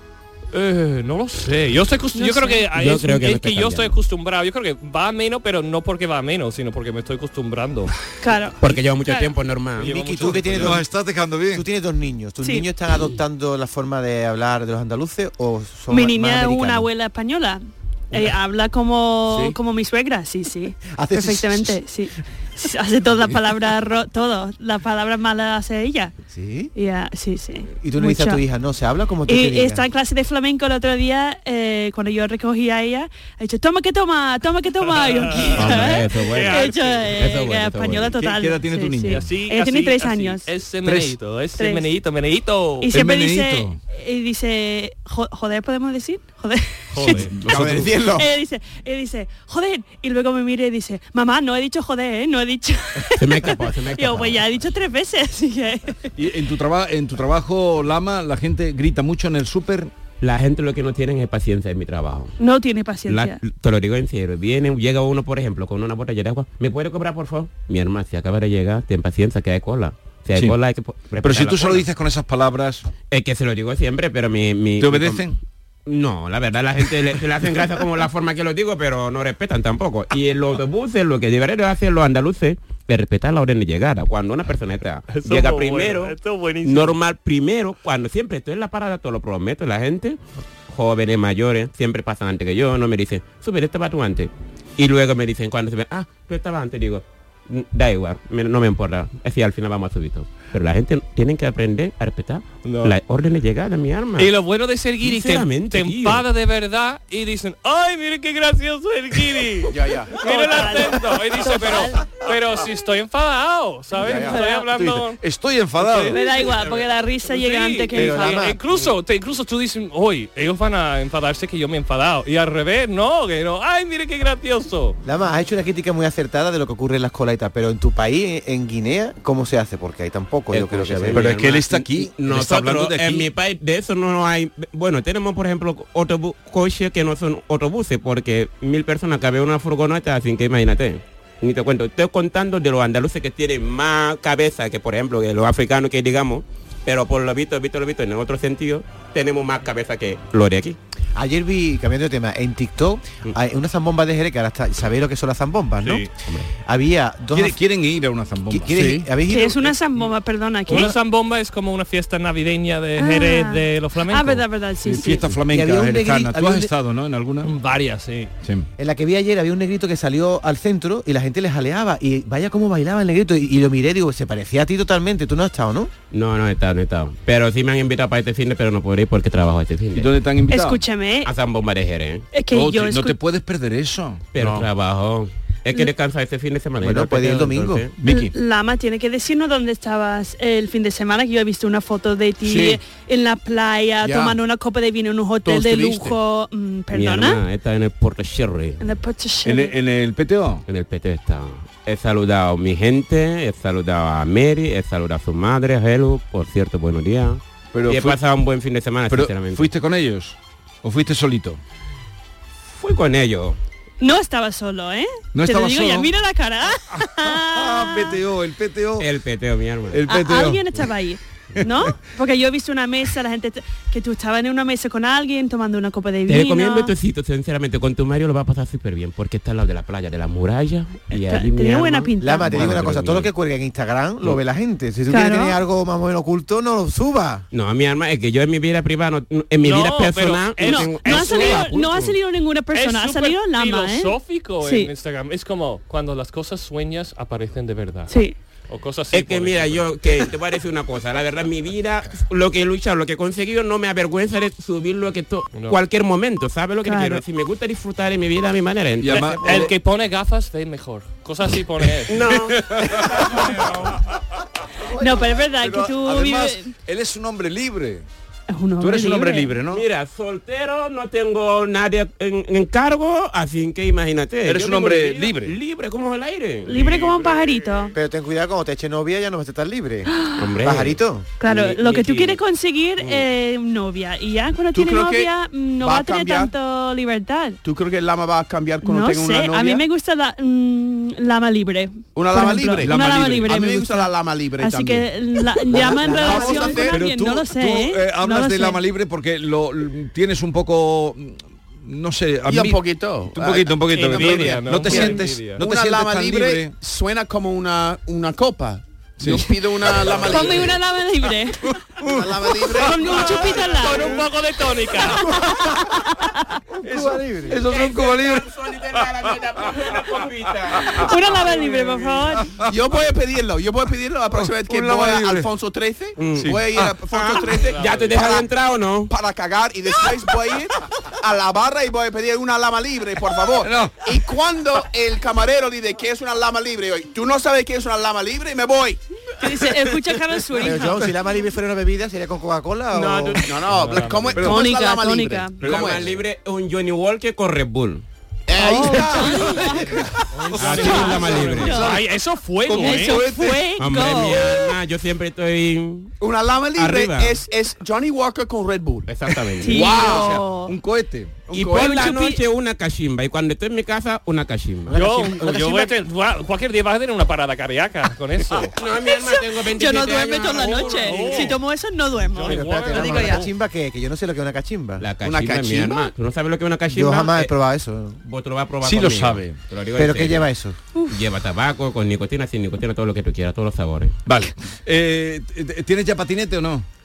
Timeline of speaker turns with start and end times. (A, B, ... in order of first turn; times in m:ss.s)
0:00.5-0:07.9 A
0:02.1-0:02.6 B
0:02.7-0:03.9 C
0:08.2-0:09.3 B
0:08.6-0:09.9 C
0:09.8-0:10.8 A
0:09.8-0:10.9 D
0:10.1-0:11.6 E
0:11.5-0:16.9 D
0:15.9-0:26.1 B
0:19.3-0:19.5 F
0:20.9-0:21.8 D
0:26.3-0:26.7 D
0:26.7-0:28.4 B
0:27.8-0:29.8 D
0:29.3-0:40.5 B
0:34.8-0:37.4 A
0:35.5-0:38.1 C
0:38.1-0:39.3 E
0:39.1-0:42.9 A
0:40.8-0:41.2 E
0:41.6-0:41.9 B
0:42.8-0:47.3 B
0:42.9-0:43.8 E
0:46.9-0:47.3 A
0:47.1-0:48.3 F
0:47.4-0:47.9 E
0:48.1-0:56.1 B
0:53.1-0:54.4 C
0:56.2-0:59.9 E
1:00.2-1:02.4 C
1:02.4-1:03.4 B
1:03.1-1:11.8 C
1:11.2-1:12.8 E
1:13.1-1:15.2 C
1:14.8-1:15.4 E
1:15.8-1:44.3 C
1:25.1-1:27.0 A
1:42.6-1:42.9 A
1:44.2-1:55.2 A
1:45.0-1:46.2 C
1:49.7-1:50.6 F
1:50.2-1:52.1 B
1:54.0-1:54.4 F
1:54.0-1:54.6 B
1:54.6-1:56.2 E
1:55.8-2:05.0 A
1:55.9-1:58.4 B
1:57.9-1:58.6 D
2:05.0-2:11.4 D
2:10.5-2:30.8 C
2:11.1-2:13.3 E
2:31.1-2:36.0 D
2:36.6-2:37.6 D
2:37.3-2:38.7 E
2:38.5-2:39.6 D
2:38.7-2:39.1 F
2:39.3-2:40.9 B
2:40.7-2:44.4 A
2:43.0-2:45.2 B
2:44.8-2:47.5 E
2:45.5-2:46.7 D
2:47.4-2:48.3 A
2:48.8-2:55.9 D
2:56.1-3:00.1 C
2:59.9-3:00.8 E
3:00.5-3:01.3 B
3:01.2-3:02.3 C
3:02.3-3:03.2 B
3:02.5-3:04.2 E
3:04.3-3:07.9 C
3:04.4-3:04.7 F
3:06.8-3:07.8 D
3:08.0-3:08.3 E
3:08.0-3:17.4 B
3:12.4-3:12.8 F
3:14.0-3:14.4 F
3:15.4-3:16.2 F
3:16.9-3:18.8 C
3:18.8-3:19.7 B
3:19.4-3:20.6 E
3:20.7-3:29.7 C
3:27.7-3:28.2 E
3:29.1-3:31.6 E
3:32.7-3:33.6 C
3:34.0-3:38.2 B
3:35.3-3:36.1 E
3:37.0-3:39.1 E
3:39.0-3:40.0 C
3:39.9-3:40.6 E
3:40.1-3:46.9 B
3:41.6-3:42.0 E
3:46.3-3:53.3 C
3:51.1-3:52.6 B
3:52.2-3:57.4 D
3:55.1-3:55.6 B
3:57.5-4:02.1 C
3:59.6-4:02.2 A
4:00.6-4:04.9 B
4:02.7-4:09.9 A
4:08.1-4:08.4 B
4:09.1-4:19.7 C
4:15.5-4:15.8 A
4:16.8-4:17.2 B
4:19.0-4:19.7 E
4:19.1-4:22.3 A
4:22.1-4:23.6 C
4:22.3-4:23.5 E
4:23.4-4:23.7 A
4:24.8-4:28.0 E
4:25.0-4:26.7 B
4:28.5-4:29.5 B
4:28.8-4:29.8 E
4:29.7-4:36.9 C
4:34.4-4:35.6 E
4:36.6-4:37.9 B
4:36.7-4:37.8 A
4:37.9-4:41.3 D
4:40.1-4:40.4 B
4:40.4-4:42.4 C
4:41.4-4:47.6 B
4:43.0-4:43.2 C
4:44.7-4:46.5 F
4:47.6-4:49.8 F
4:48.8-4:58.8 B
4:52.1-4:55.1 F
4:52.7-4:53.8 E
4:55.7-4:57.0 F
4:55.8-4:56.9 D
4:56.1-5:06.7 E
5:02.5-5:10.8 F
5:03.9-5:05.6 A
5:09.2-5:10.4 E
5:10.2-5:11.8 B
5:11.7-5:12.6 E
5:12.0-5:14.3 F
5:12.7-5:14.2 B
5:12.8-5:15.4 A
5:15.0-5:16.6 B
5:16.8-5:17.6 D
5:16.8-5:20.2 E
5:17.6-5:21.1 C
5:20.7-5:21.1 E
5:20.9-5:22.5 B
5:22.4-5:22.7 E
5:22.7-5:28.5 F
5:24.3-5:25.5 E
5:26.2-5:26.6 C
5:26.4-5:26.9 E
5:27.1-5:29.1 C
5:27.6-5:28.1 A
5:29.1-5:39.7 F
5:33.6-5:34.1 E
5:39.4-5:41.1 B
5:40.6-5:43.5 D
5:42.9-5:46.2 F
5:43.6-5:44.5 A
5:44.4-5:44.6 E
5:44.4-5:45.6 B
5:45.6-5:48.0 C
5:45.6-5:46.0 E
5:48.5-5:50.3 F
5:48.6-5:50.0 B
5:50.3-5:53.4 A
5:50.5-5:51.9 C
5:50.7-5:52.0 B
5:51.7-5:52.0 E
5:52.6-5:53.6 E
5:52.7-5:54.7 B
5:53.8-5:56.1 C
5:56.2-6:00.3 F
5:56.8-5:57.4 C
5:59.1-6:00.0 C
5:59.6-6:00.7 B
5:59.7-6:01.3 E
6:01.5-6:02.2 F
6:01.5-6:05.3 C
6:01.7-6:02.4 B
6:04.9-6:08.8 A
6:08.8-6:11.5 C
6:08.8-6:13.4 B
6:10.4-6:11.6 A
6:12.3-6:13.5 A
6:12.4-6:15.0 D
6:15.0-6:17.5 C
6:15.2-6:16.1 F
6:16.9-6:18.2 D
6:18.2-6:20.5 C
6:18.8-6:19.6 E
6:20.0-6:20.8 D
6:21.1-6:24.2 C
6:24.2-6:26.8 E